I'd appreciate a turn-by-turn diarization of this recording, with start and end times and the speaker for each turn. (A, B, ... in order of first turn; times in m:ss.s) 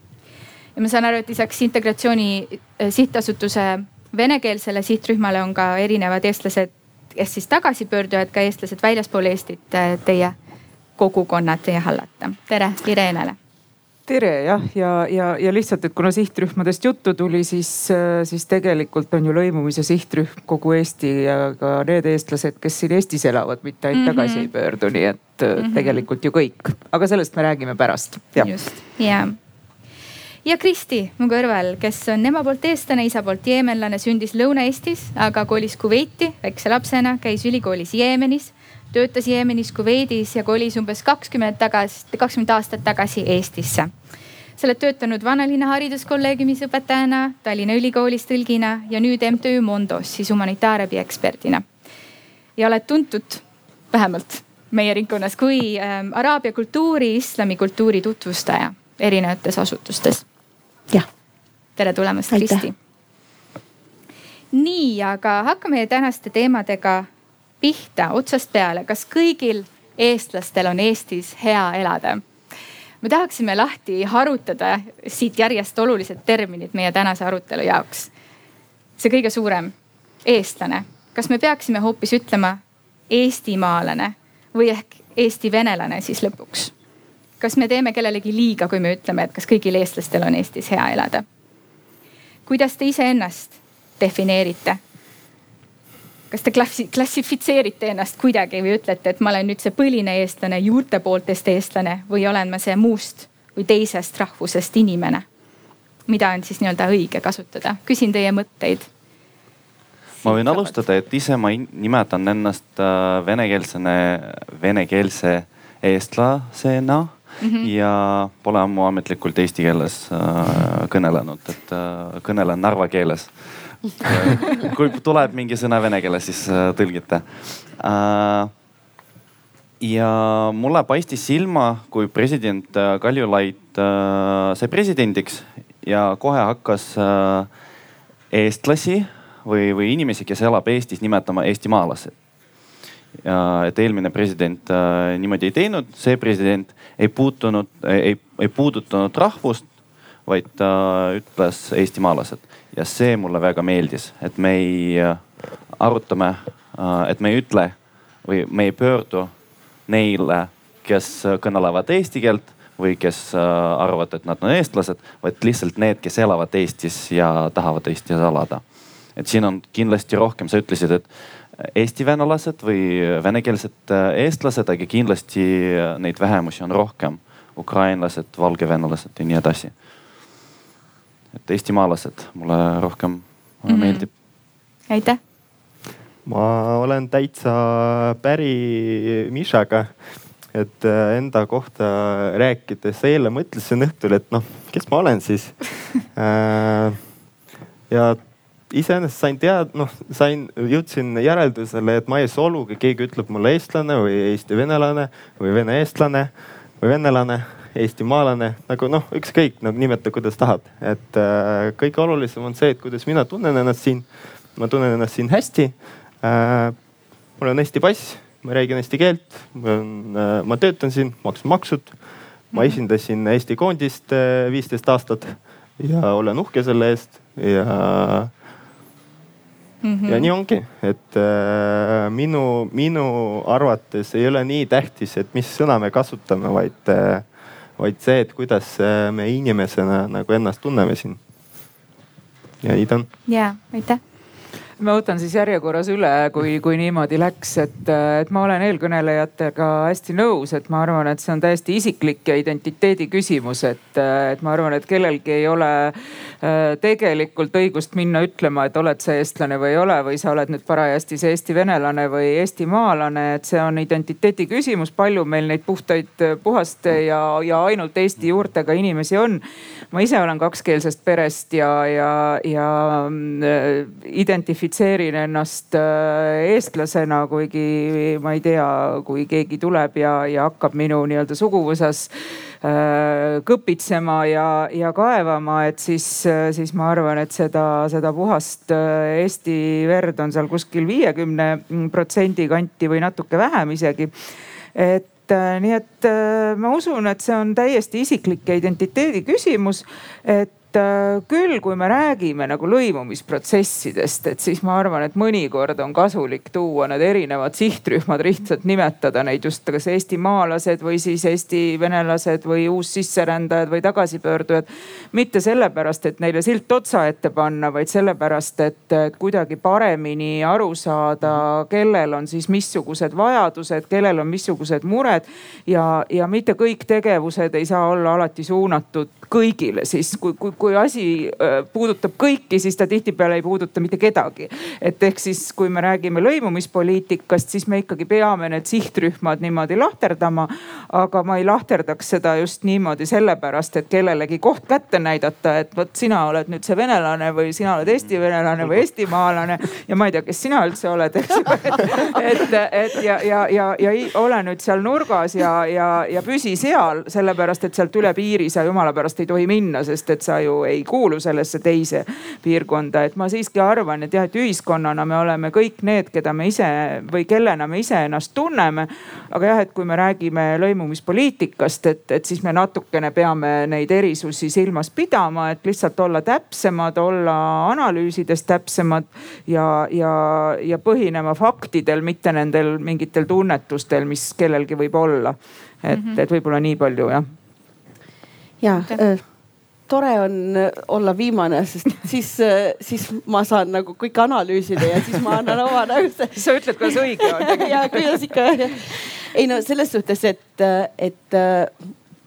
0:00.8-0:10.4 A
0:11.0-0:13.4 A
0:14.1-0:28.5 B
0:23.9-0:24.5 A
0:25.6-0:26.0 A
0:28.4-0:29.4 A
0:30.4-0:43.9 A
0:44.6-0:51.6 A
0:52.6-1:00.2 A
1:01.8-1:02.8 A
1:02.3-1:02.6 C
1:04.5-1:07.1 A
1:07.6-1:12.2 A
1:13.0-1:18.1 A
1:19.0-1:19.7 A
1:20.2-1:26.7 A
1:27.4-1:31.2 A
1:32.5-1:34.8 A
1:36.3-1:45.2 A
1:46.1-1:48.9 A
1:50.2-2:08.5 D
1:50.2-1:50.7 A
1:57.4-1:57.7 A
2:09.8-2:17.5 D
2:18.3-2:22.1 D
2:23.2-2:29.7 D
2:30.3-2:35.2 D
2:35.7-2:39.3 D
2:39.9-2:48.6 D
2:49.2-2:51.1 D
2:51.6-2:59.7 D
3:01.4-3:04.1 D
3:03.7-3:04.1 A
3:04.9-3:05.2 A
3:06.2-3:09.9 E
3:10.5-3:17.0 E
3:17.9-3:18.2 E
3:18.7-3:36.8 E
3:37.4-3:42.0 E
3:42.5-3:48.3 E
3:49.8-3:50.3 A
3:50.1-3:57.3 E
3:57.8-4:01.2 E
4:02.6-4:03.1 E
4:03.3-4:04.0 A
4:04.8-4:42.1 B
4:42.6-4:54.1 B
4:54.8-6:27.3 B
6:28.6-6:29.2 C
6:29.9-6:41.8 C
6:36.4-6:38.2 B